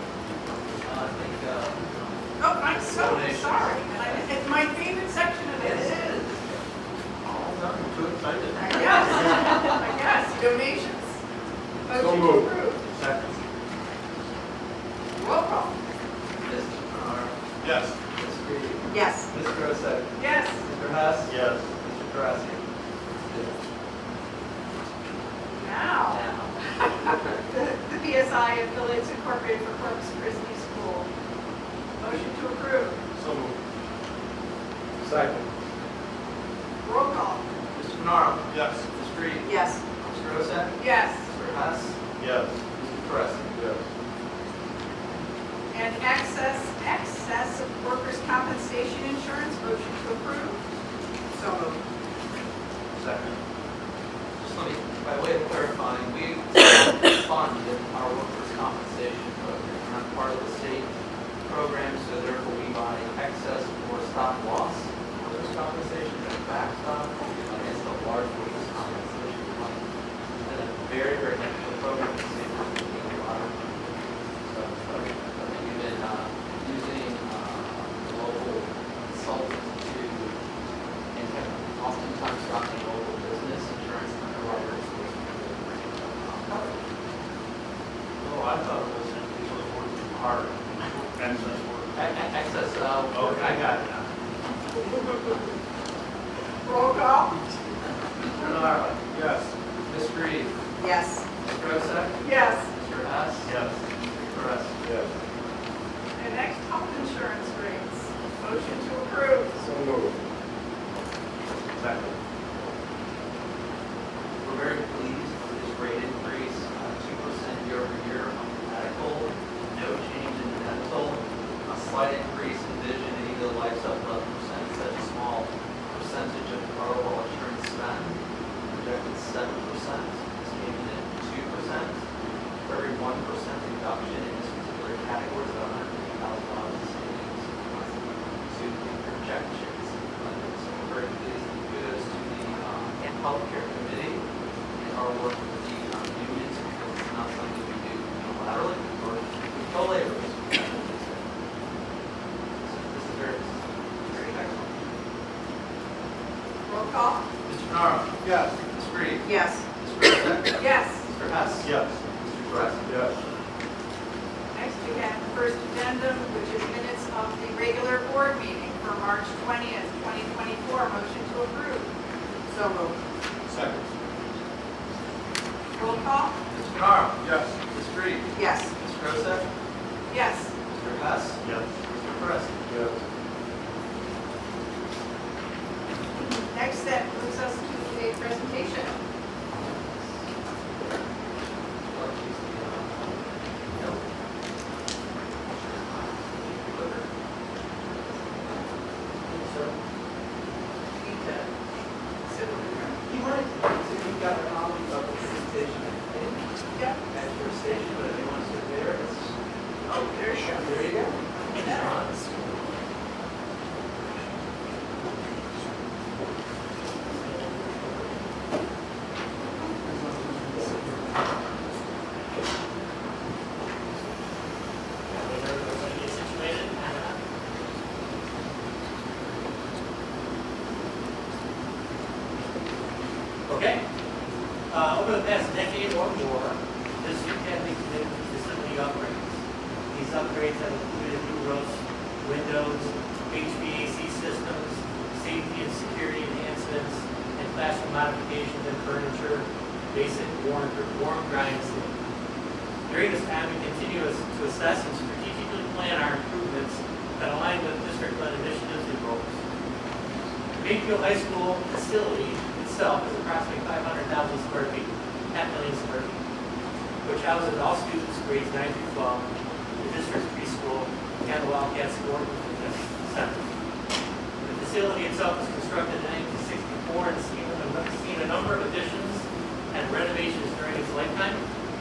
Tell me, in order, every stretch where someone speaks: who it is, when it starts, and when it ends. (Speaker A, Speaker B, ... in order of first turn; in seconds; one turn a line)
Speaker A: 0.8-2.1
Speaker B: 2.4-6.2
Speaker A: 2.7-4.3
Speaker A: 5.6-6.7
Speaker A: 7.2-8.0
Speaker C: 7.8-8.7
Speaker B: 8.6-11.2
Speaker B: 11.9-12.9
Speaker C: 11.9-13.3
Speaker B: 15.1-15.8
Speaker A: 16.4-17.4
Speaker C: 17.6-18.0
Speaker A: 18.1-22.6
Speaker B: 18.9-19.3
Speaker B: 20.2-20.6
Speaker C: 21.3-21.7
Speaker B: 25.6-31.1
Speaker A: 26.1-26.6
Speaker B: 32.0-33.0
Speaker C: 33.1-33.6
Speaker C: 35.0-35.5
Speaker B: 36.8-37.5
Speaker A: 37.7-42.0
Speaker C: 38.5-38.8
Speaker B: 39.4-39.8
Speaker B: 40.8-41.2
Speaker C: 42.2-42.6
Speaker A: 42.8-43.5
Speaker C: 43.5-43.9
Speaker B: 45.7-50.6
Speaker B: 51.3-51.8
Speaker C: 53.0-53.4
Speaker A: 54.4-60.9
Speaker A: 61.5-69.8
Speaker A: 70.4-73.8
Speaker A: 74.5-80.4
Speaker A: 81.1-86.8
Speaker A: 88.2-89.3
Speaker C: 88.8-90.1
Speaker A: 90.1-90.5
Speaker C: 91.1-92.0
Speaker A: 91.9-94.1
Speaker C: 93.1-93.7
Speaker B: 96.6-97.5
Speaker C: 98.4-99.5
Speaker A: 99.9-100.6
Speaker B: 100.8-101.2
Speaker A: 101.4-103.5
Speaker B: 102.2-102.7
Speaker C: 103.4-103.8
Speaker A: 104.1-104.8
Speaker C: 104.8-105.1
Speaker B: 106.2-109.6
Speaker C: 109.6-110.2
Speaker C: 111.8-112.2
Speaker A: 114.4-132.0
Speaker A: 132.7-137.9
Speaker A: 138.5-144.2
Speaker A: 144.8-151.2
Speaker A: 152.6-154.8
Speaker B: 156.7-157.3
Speaker A: 157.4-158.2
Speaker C: 158.2-158.6
Speaker A: 158.7-163.0
Speaker B: 159.2-159.6
Speaker B: 160.6-161.0
Speaker C: 161.6-162.0
Speaker C: 162.5-163.2
Speaker B: 164.5-171.9
Speaker B: 172.5-173.0
Speaker C: 173.5-173.9
Speaker B: 175.8-176.4
Speaker A: 176.5-179.5
Speaker C: 177.2-177.6
Speaker B: 178.3-178.7
Speaker B: 180.1-180.5
Speaker A: 180.7-182.6
Speaker C: 181.4-181.7
Speaker C: 182.7-183.0
Speaker B: 186.1-189.0
Speaker A: 191.8-194.1
Speaker A: 195.5-197.1
Speaker A: 199.2-199.8
Speaker A: 201.0-201.5
Speaker B: 202.2-203.0
Speaker A: 203.1-206.4
Speaker B: 206.7-207.0
Speaker A: 207.1-209.3
Speaker B: 209.9-210.9
Speaker A: 210.5-212.4
Speaker B: 211.5-211.9
Speaker D: 225.1-227.2
Speaker D: 233.5-233.8
Speaker D: 234.7-239.4
Speaker D: 239.9-252.0
Speaker D: 252.9-259.4
Speaker D: 260.5-266.2
Speaker D: 267.0-273.4
Speaker D: 274.4-281.4